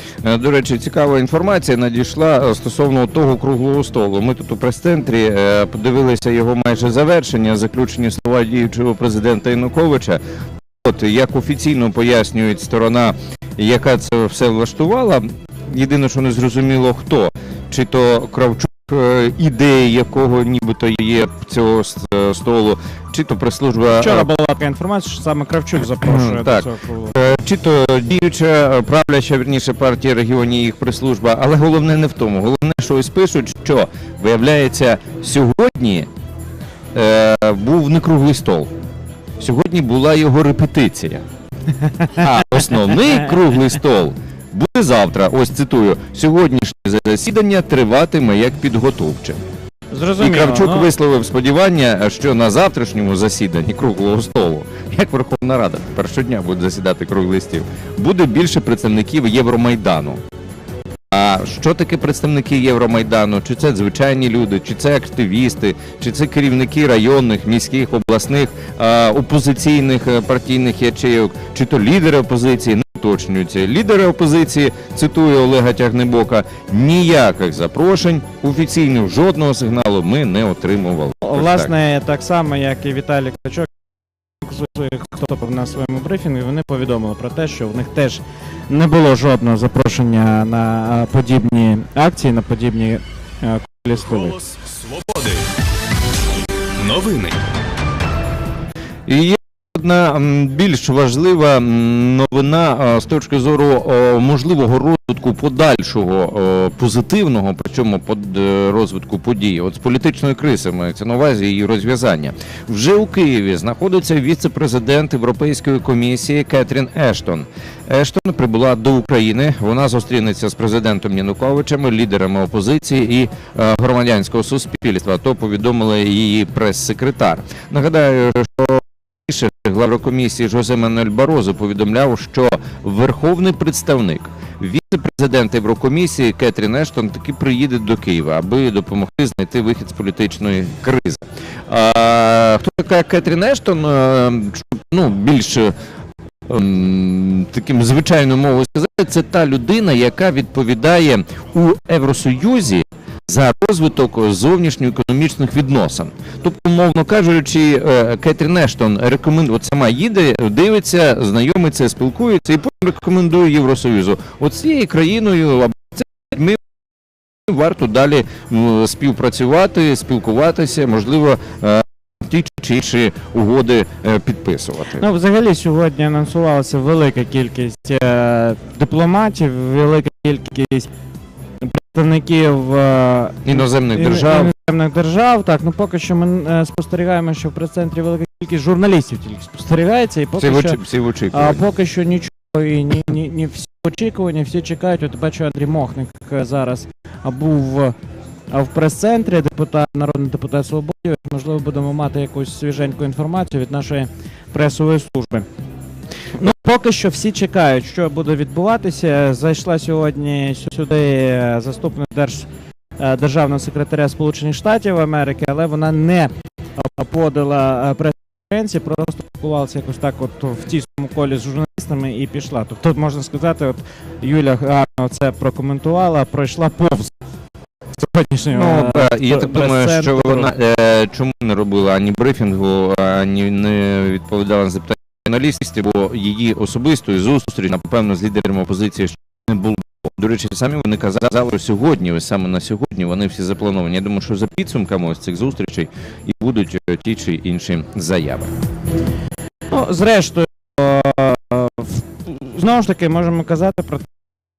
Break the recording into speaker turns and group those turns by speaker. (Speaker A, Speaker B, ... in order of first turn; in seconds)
Speaker A: 0.2-10.2, 10.8-24.3, 25.8-36.1, 36.9-38.7, 39.4-41.2, 42.1-49.4, 50.2-60.2, 61.1-81.7, 99.0-145.7, 146.4-166.6, 167.5-175.0, 183.4-184.5, 190.4-191.6, 228.5-248.5
Speaker B: 23.9-27.2, 41.8-42.3, 49.9-50.9, 81.2-83.7, 84.4-94.3, 175.0-180.9, 181.6-190.8, 191.3-197.9, 198.5-205.5, 206.3-212.5, 213.0-227.1, 227.9-230.5, 249.7-254.1
Speaker C: 94.0-95.5, 96.8-97.4